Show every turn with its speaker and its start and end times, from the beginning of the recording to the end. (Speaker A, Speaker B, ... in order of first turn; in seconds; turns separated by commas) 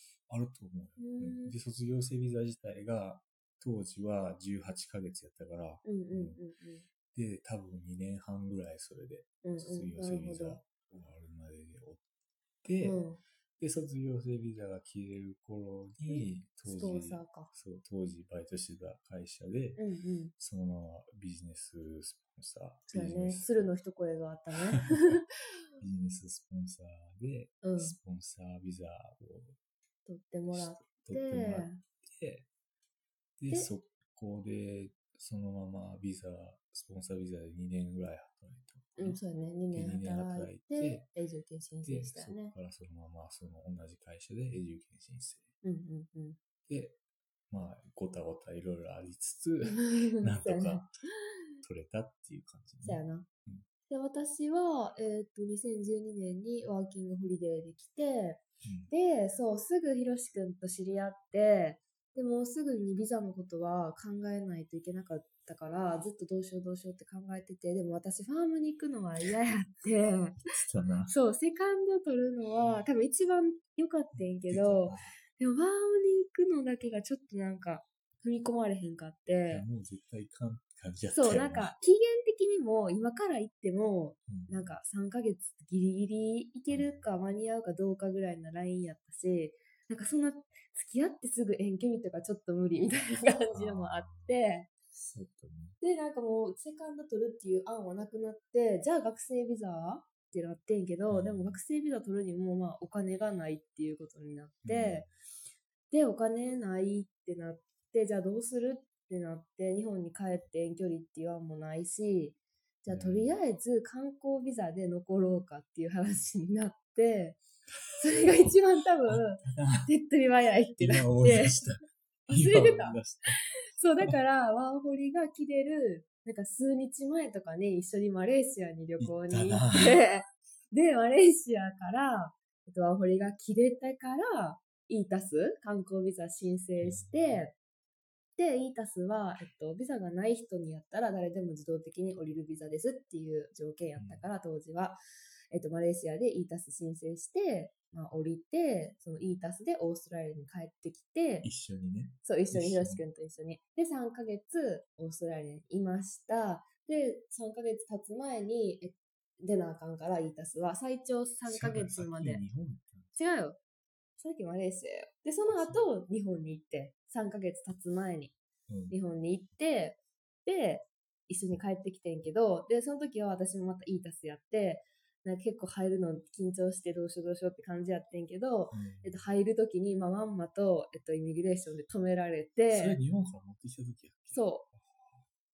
Speaker A: 0.3-6.4, Speaker B: 1.0-1.5, Speaker B: 5.8-6.8, Speaker A: 7.1-12.0, Speaker B: 9.4-10.6, Speaker A: 12.6-13.0, Speaker B: 12.8-13.2, Speaker A: 13.6-19.8, Speaker B: 16.1-17.5, Speaker B: 19.8-20.3, Speaker A: 20.4-23.7, Speaker B: 22.9-25.2, Speaker A: 25.8-29.6, Speaker B: 27.6-28.0, Speaker B: 30.0-31.8, Speaker A: 30.5-32.5, Speaker A: 33.4-39.2, Speaker B: 39.0-42.5, Speaker A: 39.7-41.1, Speaker A: 41.8-45.5, Speaker B: 45.6-46.4, Speaker A: 46.7-47.0, Speaker A: 47.5-50.9, Speaker B: 49.6-51.1, Speaker A: 51.6-53.6, Speaker B: 52.8-53.3, Speaker B: 53.9-70.4, Speaker A: 58.6-58.9, Speaker A: 70.5-71.1, Speaker B: 71.1-79.6, Speaker A: 74.2-75.2, Speaker A: 79.5-81.8, Speaker B: 81.1-94.7, Speaker A: 84.3-84.7, Speaker A: 86.7-87.0, Speaker A: 93.5-94.3, Speaker A: 94.9-95.8, Speaker B: 95.8-105.1, Speaker A: 101.1-101.6, Speaker A: 104.6-105.1, Speaker B: 105.9-117.4, Speaker A: 112.9-113.3, Speaker B: 118.0-121.7, Speaker A: 119.1-119.9, Speaker A: 120.8-123.3, Speaker B: 122.3-137.5, Speaker A: 129.0-130.0, Speaker A: 136.8-137.4, Speaker B: 138.4-145.0, Speaker A: 143.9-144.2, Speaker B: 145.5-151.5, Speaker A: 151.4-153.0, Speaker B: 152.2-162.4, Speaker A: 161.4-163.3, Speaker B: 163.2-163.6, Speaker B: 164.2-168.3, Speaker A: 165.4-165.8, Speaker A: 168.7-168.9, Speaker B: 168.9-183.0, Speaker A: 178.7-179.2, Speaker A: 182.7-185.2, Speaker B: 184.3-184.7